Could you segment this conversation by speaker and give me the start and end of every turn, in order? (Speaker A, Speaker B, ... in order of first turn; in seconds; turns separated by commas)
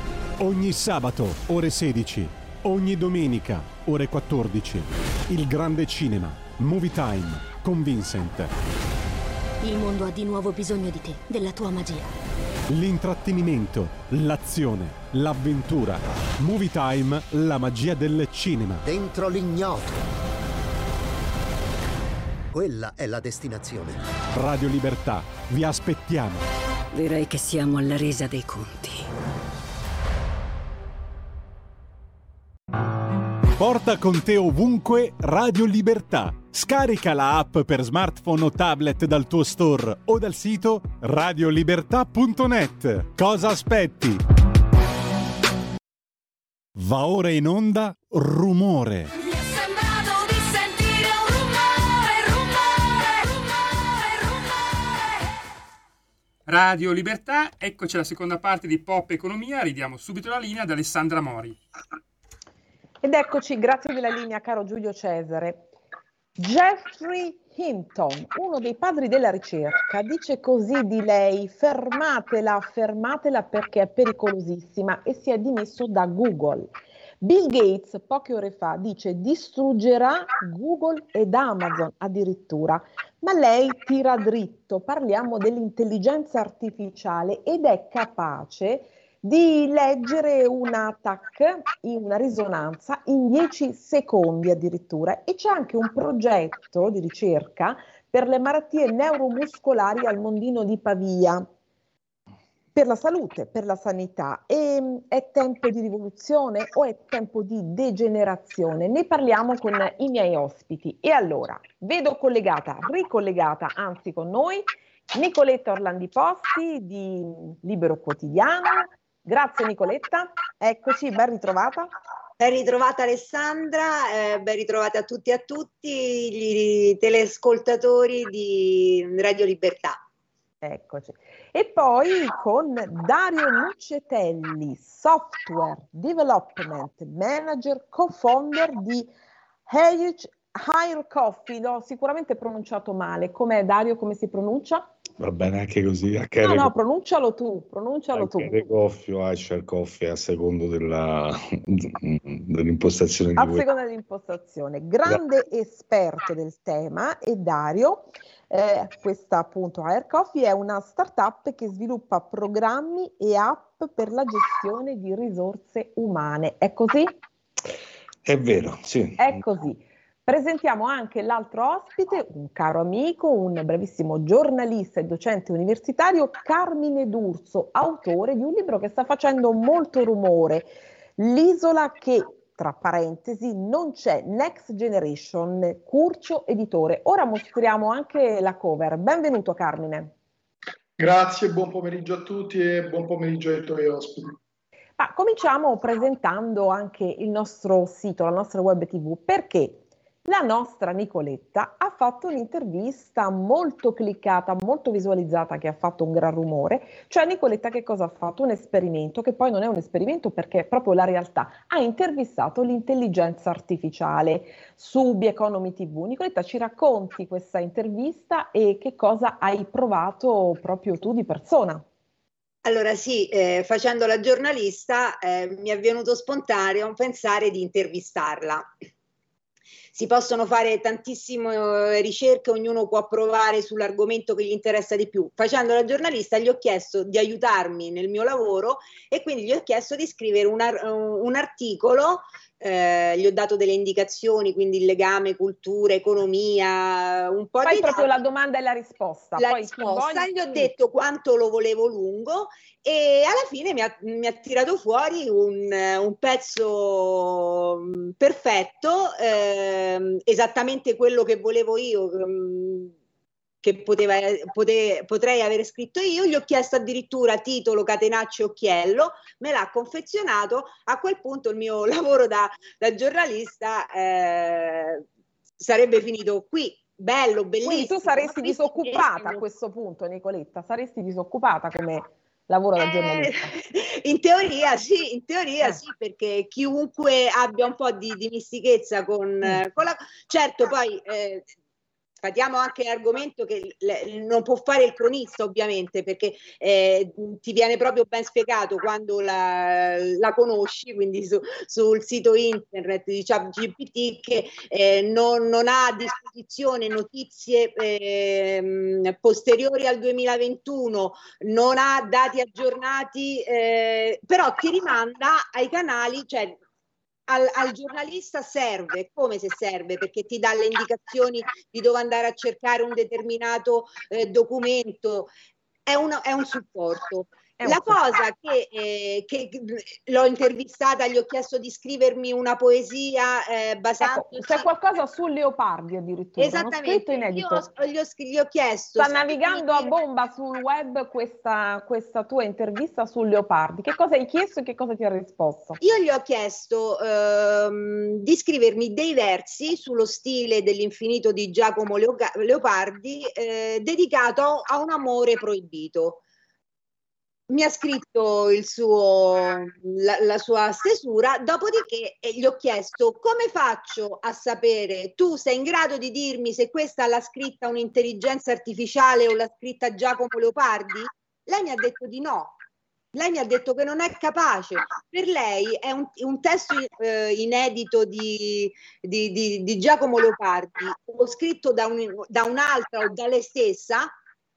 Speaker A: 0.4-8.5, Speaker B: 9.6-12.1, Speaker A: 12.7-18.8, Speaker C: 18.8-20.0, Speaker C: 22.5-24.0, Speaker A: 24.3-26.4, Speaker D: 26.9-29.0, Speaker A: 33.6-44.2, Speaker A: 46.7-49.1, Speaker B: 49.3-52.4, Speaker E: 56.5-61.6, Speaker F: 63.0-65.6, Speaker F: 66.4-101.5, Speaker F: 102.7-121.9, Speaker G: 122.4-130.0, Speaker F: 130.6-139.1, Speaker F: 139.7-144.9, Speaker H: 145.2-146.7, Speaker F: 146.4-148.7, Speaker H: 148.1-153.7, Speaker F: 153.4-167.2, Speaker H: 168.2-169.3, Speaker F: 169.2-190.1, Speaker I: 191.0-194.4, Speaker F: 195.0-221.8, Speaker G: 222.6-228.7, Speaker G: 229.9-248.2, Speaker F: 247.6-250.7, Speaker G: 249.4-262.9, Speaker G: 263.6-275.0, Speaker G: 275.6-279.4, Speaker F: 277.6-283.5, Speaker G: 282.8-291.4, Speaker G: 292.2-316.6, Speaker G: 317.3-325.3, Speaker G: 325.9-334.7, Speaker F: 327.6-328.0, Speaker F: 334.0-337.7, Speaker G: 336.4-339.9, Speaker F: 339.0-345.8, Speaker G: 345.8-356.2, Speaker G: 357.5-372.6, Speaker G: 373.1-384.1